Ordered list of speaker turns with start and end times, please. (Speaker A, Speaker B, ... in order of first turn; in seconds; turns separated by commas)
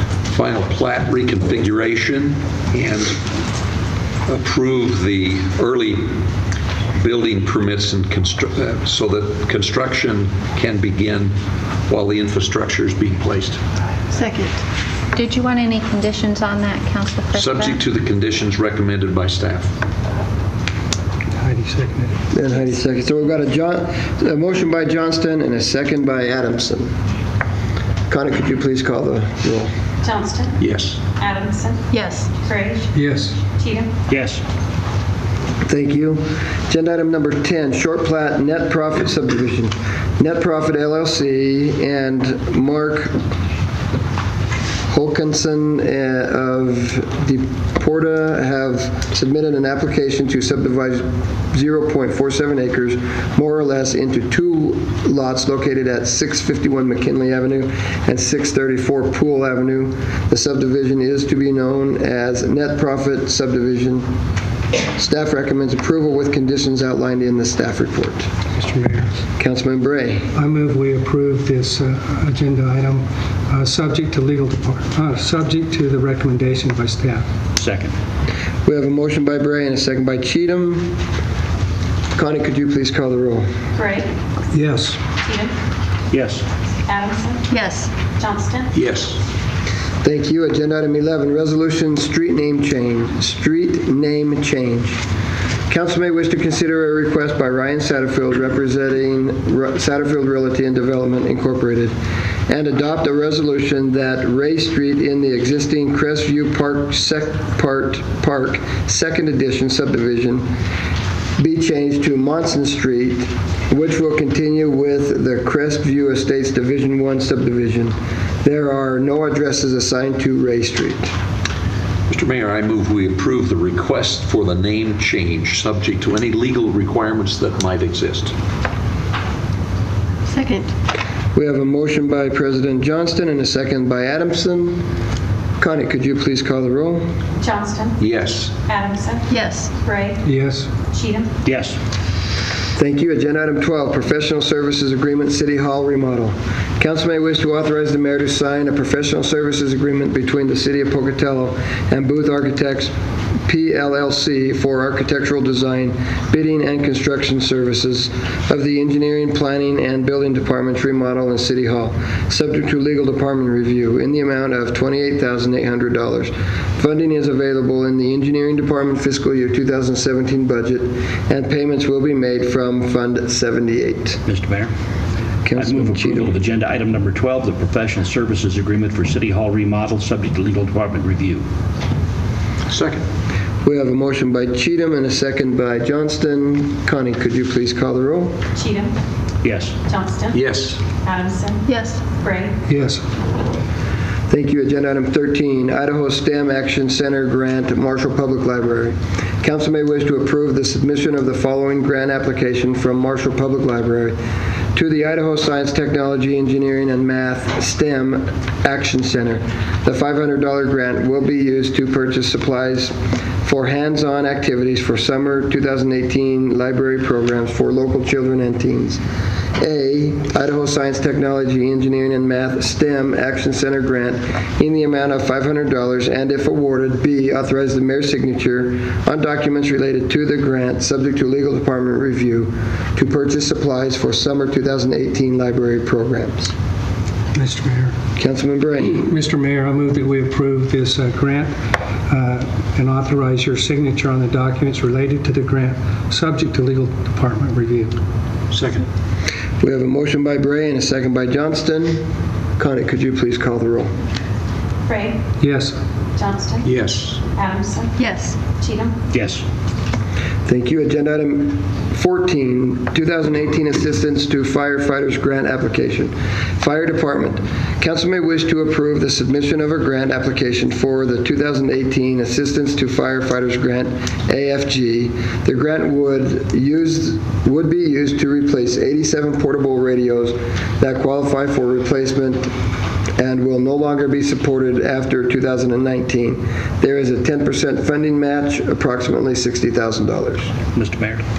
Speaker A: 0.3-3.2, Speaker A: 4.2-6.2, Speaker A: 6.9-11.4, Speaker A: 11.9-13.6, Speaker B: 14.2-14.5, Speaker C: 15.1-17.8, Speaker A: 17.3-19.7, Speaker D: 21.4-22.1, Speaker E: 22.3-26.9, Speaker E: 28.1-29.7, Speaker F: 30.0-30.6, Speaker A: 30.6-31.0, Speaker F: 31.1-32.9, Speaker B: 31.9-32.3, Speaker D: 32.9-33.4, Speaker F: 33.6-33.9, Speaker G: 34.1-34.4, Speaker E: 35.6-43.2, Speaker E: 44.9-64.1, Speaker E: 65.0-68.3, Speaker D: 68.5-69.1, Speaker E: 69.4-70.3, Speaker D: 70.3-77.2, Speaker G: 77.6-77.9, Speaker E: 78.6-81.0, Speaker E: 82.1-83.5, Speaker F: 83.7-84.1, Speaker D: 84.5-85.0, Speaker F: 85.2-85.5, Speaker G: 86.1-86.4, Speaker F: 86.8-87.5, Speaker B: 87.5-87.9, Speaker F: 88.2-88.7, Speaker A: 88.7-89.2, Speaker E: 90.0-95.0, Speaker E: 95.7-101.9, Speaker E: 102.5-110.5, Speaker E: 111.4-121.1, Speaker A: 122.1-128.3, Speaker B: 130.3-130.7, Speaker E: 131.3-134.9, Speaker E: 135.6-137.1, Speaker F: 137.4-138.0, Speaker A: 138.0-138.5, Speaker F: 138.7-140.2, Speaker B: 139.3-139.7, Speaker D: 140.2-140.7, Speaker F: 140.9-141.3, Speaker G: 141.4-141.8, Speaker E: 142.8-152.9, Speaker E: 153.4-174.2, Speaker G: 174.2-174.7, Speaker E: 175.4-176.3, Speaker G: 175.5-181.4, Speaker A: 182.7-183.0, Speaker E: 183.6-188.4, Speaker F: 188.5-188.9, Speaker G: 189.4-189.8, Speaker F: 189.9-192.5, Speaker A: 190.3-190.8, Speaker B: 191.7-192.0, Speaker D: 192.7-193.0, Speaker E: 194.3-204.2, Speaker E: 204.7-219.0, Speaker E: 219.6-236.5, Speaker D: 237.3-237.9, Speaker E: 238.2-239.0, Speaker D: 238.9-241.5, Speaker D: 242.1-247.9, Speaker A: 248.5-248.8, Speaker E: 249.6-253.9, Speaker F: 254.9-255.2, Speaker D: 255.4-255.8, Speaker F: 256.2-256.7, Speaker A: 256.6-257.2, Speaker F: 257.3-258.0, Speaker B: 258.0-258.4, Speaker F: 258.5-258.9, Speaker G: 259.1-259.4, Speaker E: 260.4-282.5, Speaker E: 283.2-290.5, Speaker G: 290.7-291.2